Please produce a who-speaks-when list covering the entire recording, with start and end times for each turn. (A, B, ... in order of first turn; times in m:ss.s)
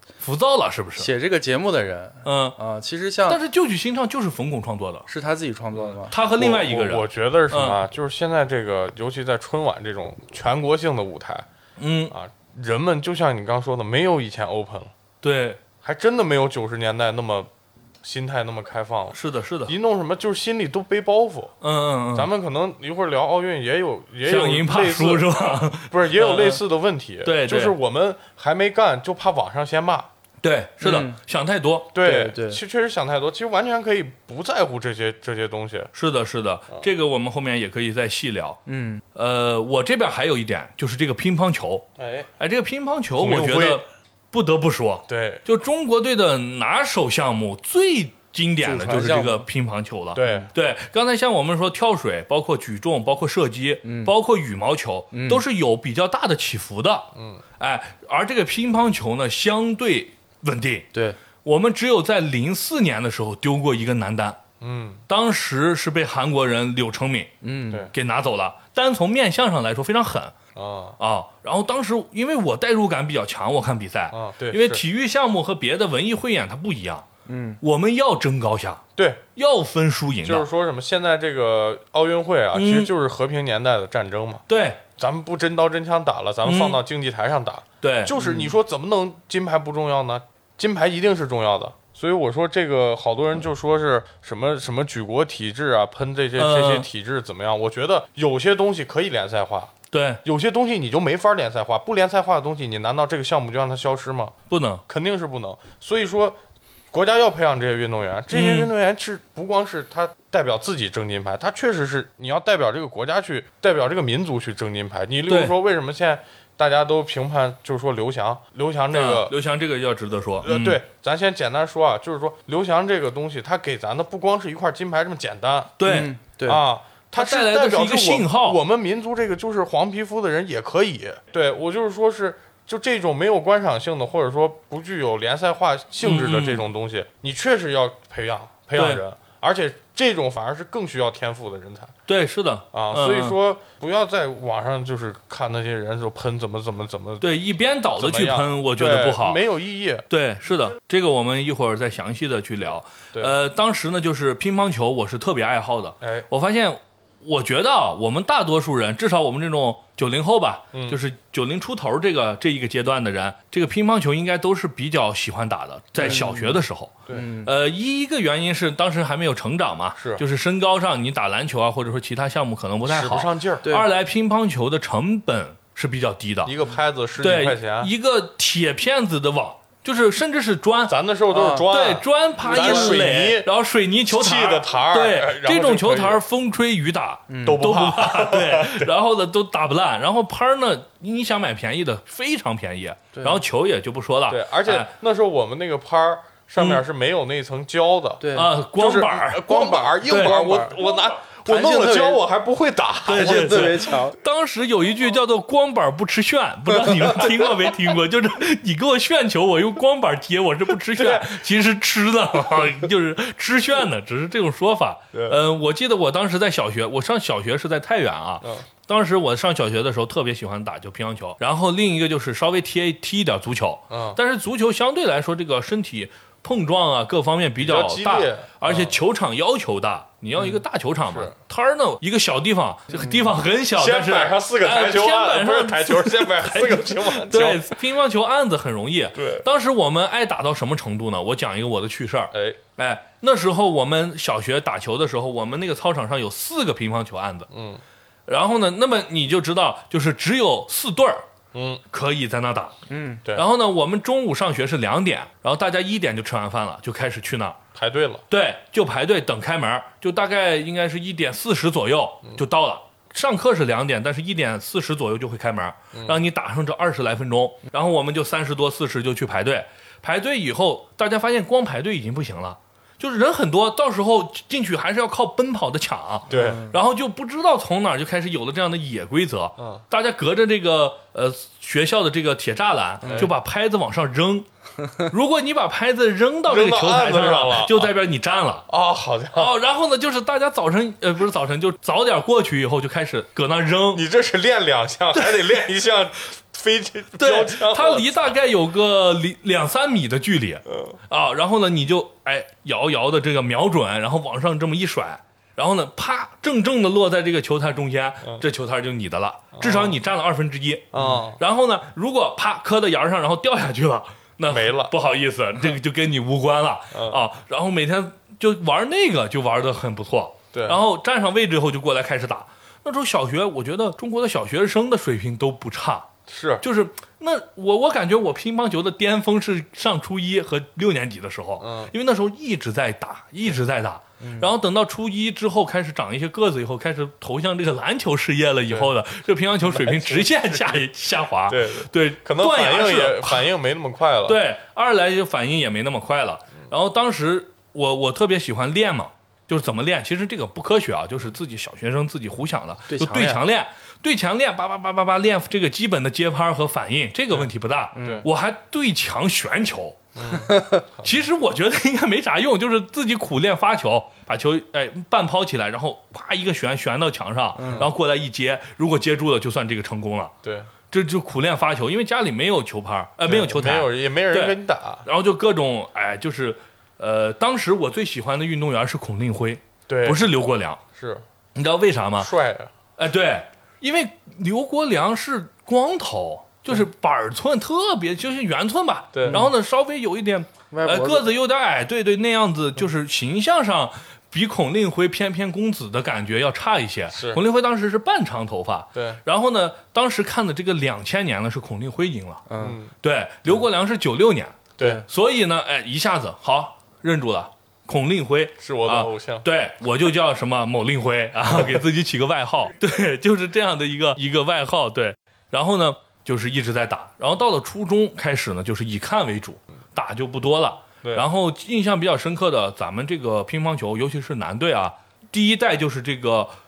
0:00.2-0:01.1 A
0:01.0-0:03.4 B
0:02.2-0:02.6 A
0:03.3-0:05.1 A
0:05.1-0:06.1 B
0:05.7-0:11.4 C
0:06.1-0:07.8 A
0:11.8-0:12.1 A
0:12.1-0:14.9 C
0:15.2-0:15.6 A
0:15.8-0:17.5 C
0:18.0-0:21.5 C
0:19.1-0:19.7 A
0:21.6-0:22.3 A
0:22.1-0:30.1 C
0:24.2-0:26.6 A
0:27.2-0:27.7 A
0:30.4-0:31.9 A
0:30.8-0:31.2 B
0:31.9-0:35.9 C
0:32.0-0:32.6 B
0:35.9-0:38.6 A
0:38.6-0:39.0 B
0:39.1-0:41.8 A
0:42.0-0:42.3 C
0:42.4-1:00.9 A
0:43.2-0:43.8 C
0:45.1-0:45.4 C
0:48.6-0:49.4 B
0:50.1-0:50.5 C
0:53.8-0:54.1 B
0:55.1-0:55.4 B
0:57.2-0:57.4 C
1:01.4-1:04.4 A
1:04.6-1:05.0 C
1:05.1-1:07.3 A
1:07.4-1:07.9 B
1:07.9-1:10.3 A
1:10.5-1:11.0 C
1:11.0-1:17.0 A
1:14.1-1:14.8 C
1:17.3-1:17.6 B
1:17.6-1:18.8 A
1:19.0-1:19.2 C
1:19.3-1:20.5 A
1:20.2-1:24.4 C
1:22.5-1:22.9 A
1:24.5-1:24.8 A
1:25.0-1:44.3 C
1:26.4-1:26.8 A
1:27.8-1:28.1 A
1:28.2-1:28.5 B
1:36.4-1:36.9 A
1:39.9-1:40.2 A
1:44.5-1:44.8 A
1:44.9-1:46.4 C
1:46.9-1:59.3 C
1:48.3-1:48.7 A
1:55.3-1:55.5 A
1:58.9-2:00.8 A
2:00.4-2:05.7 C
2:05.8-2:06.1 A
2:05.8-2:06.6 B
2:06.4-2:21.9 C
2:07.1-2:08.6 A
2:16.0-2:16.6 A
2:18.7-2:19.0 A
2:22.1-2:23.4 A
2:22.7-2:27.3 C
2:27.2-2:29.4 A
2:28.0-2:30.0 C
2:30.1-2:56.5 A
2:36.0-2:36.3 C
2:40.7-2:41.0 C
2:46.0-2:46.6 B
2:46.0-2:46.3 C
2:47.1-2:47.5 B
2:50.0-2:50.2 C
2:52.9-2:53.6 C
2:56.4-2:57.9 C
2:57.2-3:00.9 A
3:00.9-3:03.5 C
3:01.3-3:01.6 B
3:01.6-3:14.9 A
3:02.4-3:03.0 B
3:04.1-3:06.2 C
3:07.3-3:07.6 B
3:07.4-3:08.9 C
3:13.1-3:13.4 B
3:14.3-3:23.9 C
3:16.6-3:16.8 A
3:18.2-3:18.5 B
3:18.3-3:20.4 A
3:19.4-3:22.2 B
3:23.0-4:07.5 A
3:23.1-3:24.2 B
3:30.9-3:31.4 C
3:35.1-3:35.4 C
3:38.4-3:38.7 C
3:43.9-3:44.2 C
3:47.6-3:49.0 C
3:53.7-3:57.8 C
3:59.1-3:59.4 C
4:02.3-4:02.6 C
4:07.5-4:07.8 C
4:08.3-4:11.2 A
4:11.5-4:11.8 C
4:11.9-4:12.8 A
4:12.9-4:13.2 B
4:13.3-4:17.6 A
4:17.7-4:18.2 C
4:18.3-4:44.5 A
4:25.9-4:26.2 C
4:36.3-4:36.6 C
4:36.3-4:36.8 B
4:39.6-4:39.8 C
4:43.0-4:43.3 B
4:43.0-4:43.3 C
4:45.0-4:48.7 A
4:46.5-4:47.9 C
4:48.7-4:49.5 C
4:49.3-4:54.0 A
4:53.9-4:58.1 C
4:55.1-4:55.4 A
4:57.2-5:26.1 A
5:00.7-5:01.0 C
5:09.5-5:10.0 C
5:10.9-5:11.4 C
5:14.5-5:14.9 C
5:16.9-5:17.2 C
5:20.5-5:20.8 C
5:26.3-5:26.6 C
5:26.6-5:43.5 A
5:31.6-5:31.9 C
5:39.6-5:40.8 C
5:41.5-5:44.4 C
5:44.2-6:00.1 A
5:52.9-5:53.4 B
5:57.9-5:58.2 B
5:58.0-5:58.2 C
6:00.1-6:01.2 C
6:00.5-6:00.8 B
6:01.0-6:10.3 A
6:07.6-6:07.9 B
6:10.4-6:10.7 C
6:10.9-6:20.8 A
6:13.2-6:15.0 C
6:19.9-6:20.3 C
6:20.9-6:21.2 C
6:21.5-6:22.3 A
6:22.2-6:22.7 C
6:23.0-6:42.4 A
6:29.1-6:29.4 C
6:30.7-6:31.3 B
6:37.1-6:37.4 C
6:38.9-6:39.2 C
6:42.5-6:42.8 B
6:42.6-6:42.9 C
6:43.0-7:06.5 A
6:44.8-6:45.0 C
6:48.6-6:49.4 C